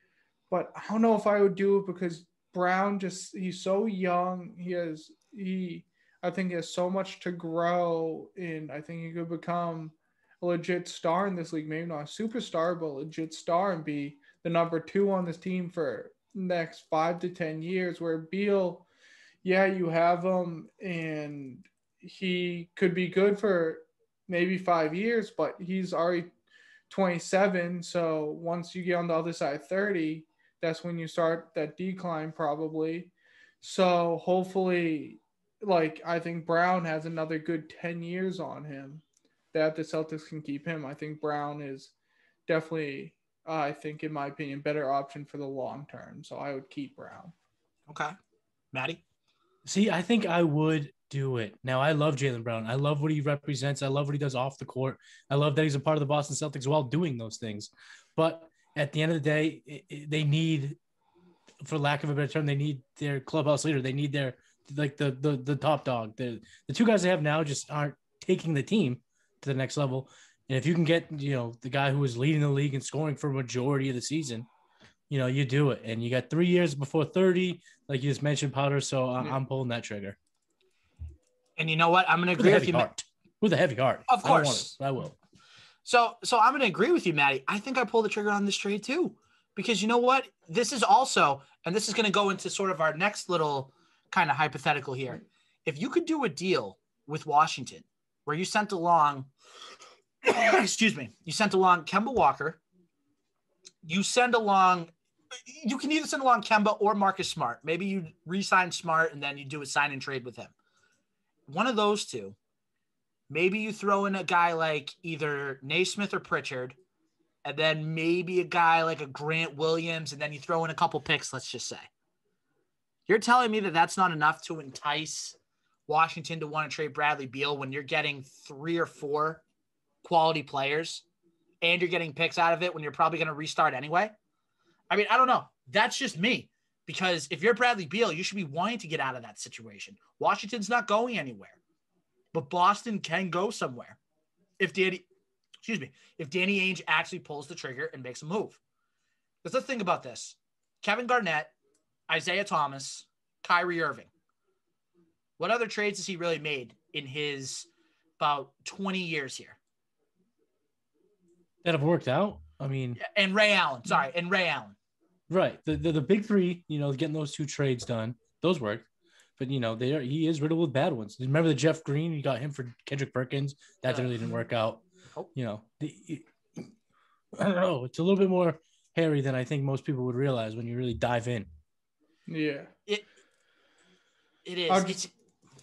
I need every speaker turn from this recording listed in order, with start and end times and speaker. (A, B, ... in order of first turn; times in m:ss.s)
0:00.5-0:18.9 A
0:19.4-0:26.3 A
0:26.9-0:41.9 A
0:42.5-0:47.3 A
0:47.9-0:48.2 B
0:48.7-0:49.0 B
0:49.6-1:00.8 C
1:01.6-1:14.5 C
1:15.1-1:20.2 C
1:21.6-1:22.9 B
1:22.4-1:25.2 C
1:24.1-1:24.8 B
1:25.8-1:39.3 B
1:40.2-1:42.6 B
1:43.8-1:44.9 B
1:45.5-1:50.5 B
1:51.5-1:52.4 B
1:53.3-1:56.8 B
1:57.4-2:01.9 B
2:03.1-2:05.4 B
2:05.9-2:09.4 B
2:10.0-2:11.0 B
2:11.6-2:14.1 B
2:14.9-2:21.6 B
2:22.3-2:24.0 B
2:24.6-2:25.1 B
2:25.6-2:28.6 B
2:29.4-2:31.5 B
2:32.1-2:34.1 B
2:35.4-2:37.7 B
2:38.2-2:39.6 B
2:41.6-2:43.0 C
2:43.0-2:44.8 B
2:45.3-2:48.9 C
2:49.4-2:56.7 C
2:53.8-2:54.2 B
2:57.4-3:01.5 C
3:02.3-3:02.7 A
3:04.4-3:05.1 B
3:04.7-3:05.1 A